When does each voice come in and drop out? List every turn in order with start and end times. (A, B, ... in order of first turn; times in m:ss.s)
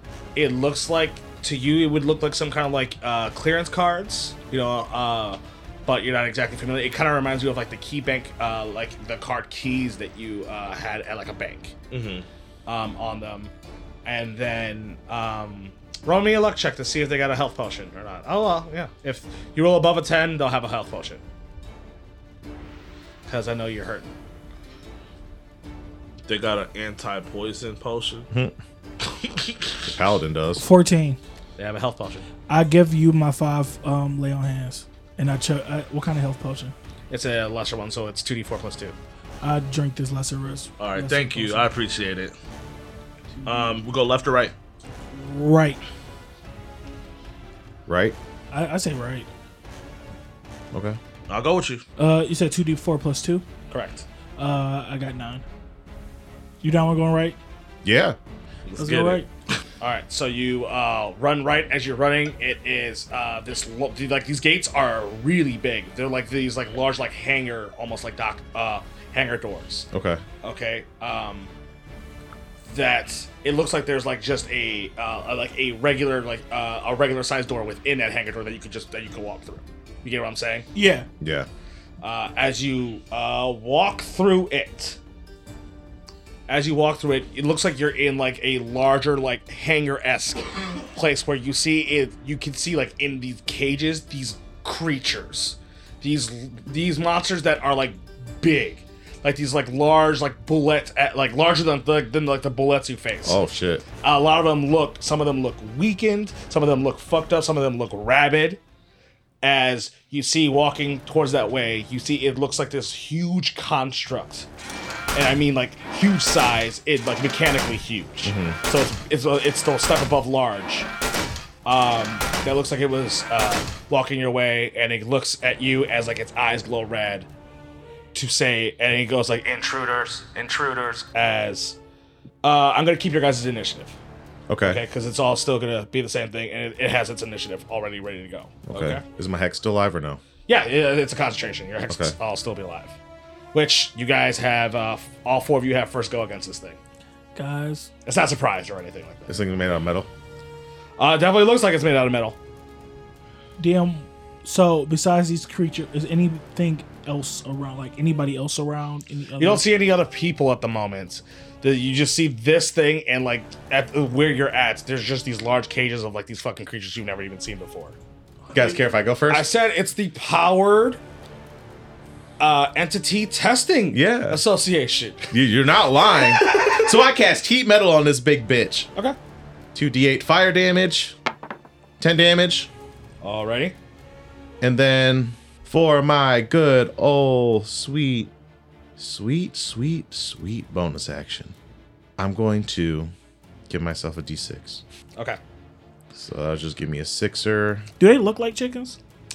0:00.4-0:11.8 A
0:11.9-0:12.3 B
0:12.7-0:13.5 A
0:14.0-0:21.2 A
0:23.3-0:24.1 A
0:26.3-0:28.3 B
0:29.1-0:29.7 B
0:29.8-0:30.6 C
0:30.6-0:31.2 D
0:31.6-0:32.3 A
0:32.5-0:36.7 D
0:37.1-0:39.0 A
0:39.4-0:41.7 D
0:40.8-0:42.3 B
0:43.4-0:43.7 D
0:43.4-0:44.5 B
0:45.1-0:45.8 D
0:47.9-0:48.2 C
0:48.5-0:49.3 D
0:50.7-0:51.0 C
0:51.3-0:51.8 B
0:52.0-0:53.4 D
0:53.7-0:54.1 A
0:54.4-0:55.4 D
0:56.6-0:57.4 D
0:57.8-0:58.2 C
0:58.7-0:59.2 B
0:58.8-0:59.3 D
0:59.8-1:09.9 A
1:09.9-1:10.2 C
1:10.4-1:11.5 A
1:12.7-1:20.7 A
1:20.8-1:21.1 D
1:21.2-1:21.5 C
1:22.0-1:25.0 A
1:26.5-1:43.4 A
1:43.2-1:43.8 C
1:44.0-1:48.6 A
1:49.4-1:54.5 A
1:55.1-2:00.9 A
1:58.2-1:58.6 C
2:01.6-2:07.3 A
2:08.1-2:11.8 A
2:12.4-2:14.0 A
2:14.5-2:14.8 C
2:14.6-2:19.0 A
2:18.7-2:20.2 C
2:20.5-2:23.0 A
2:21.9-2:22.2 C
2:23.5-2:26.8 A
2:27.4-2:27.9 D
2:28.0-2:29.4 A
2:29.3-2:30.1 C
2:31.0-2:32.4 A
2:33.6-2:39.6 D
2:39.4-2:48.0 A
2:48.5-2:49.5 C
2:49.3-2:51.0 A
2:52.4-2:55.3 A
2:53.9-2:54.4 C
2:55.3-2:58.9 C
2:56.2-2:56.9 A
2:59.7-3:01.2 C
3:02.0-3:02.7 C
3:03.2-3:03.8 A
3:04.6-3:08.3 C
3:09.0-3:11.6 C
3:12.2-3:13.1 C
3:13.7-3:14.8 C
3:16.1-3:17.9 C
3:18.0-3:19.0 D